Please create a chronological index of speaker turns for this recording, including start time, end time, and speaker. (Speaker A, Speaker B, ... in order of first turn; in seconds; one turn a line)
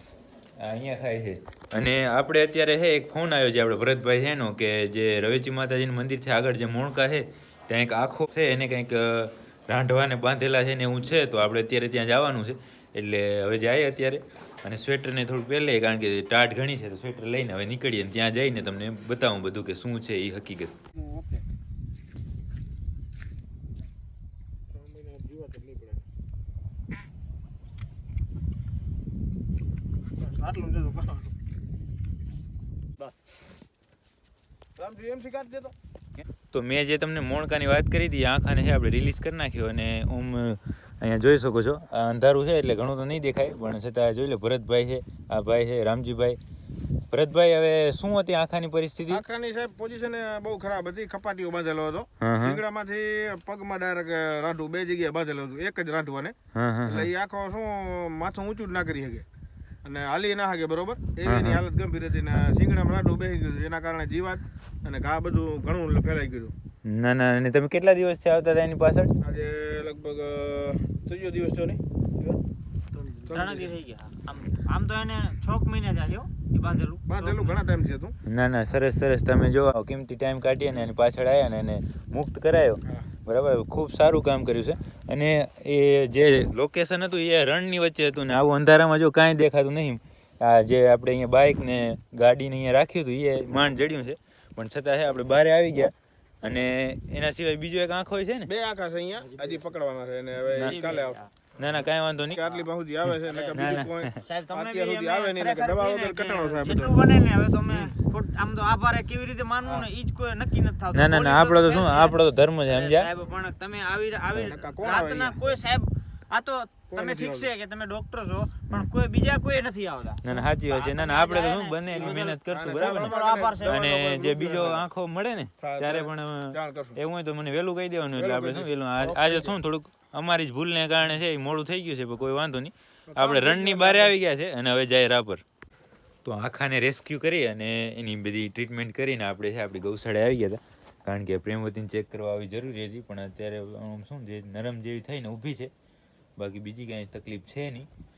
Speaker A: 0.6-20.8
Speaker B: 20.9-21.4
Speaker B: 24.7-26.0
Speaker B: 30.2-31.3
Speaker B: 34.8-35.7
Speaker A: 36.5-46.4
Speaker A: 47.1-49.2
Speaker B: 49.1-56.3
Speaker A: 52.2-52.6
Speaker A: 56.5-57.1
Speaker B: 56.9-59.2
Speaker B: 59.8-66.5
Speaker A: 61.2-61.6
Speaker A: 66.8-69.1
Speaker B: 69.2-72.4
Speaker C: 73.0-77.5
Speaker B: 73.1-73.7
Speaker B: 77.1-78.1
Speaker A: 78.2-98.5
Speaker B: 98.5-101.2
Speaker C: 99.3-99.6
Speaker C: 100.5-101.3
Speaker A: 100.5-100.9
Speaker A: 101.5-102.4
Speaker B: 102.3-107.0
Speaker C: 102.4-102.7
Speaker C: 103.2-123.8
Speaker A: 103.5-104.2
Speaker A: 110.9-113.1
Speaker B: 114.4-115.4
Speaker B: 116.9-117.5
Speaker A: 120.2-135.4
Speaker B: 121.9-124.8
Speaker B: 125.6-127.0
Speaker B: 128.1-129.6
Speaker B: 133.1-134.1
Speaker A: 136.2-145.7
Speaker A: 146.4-147.9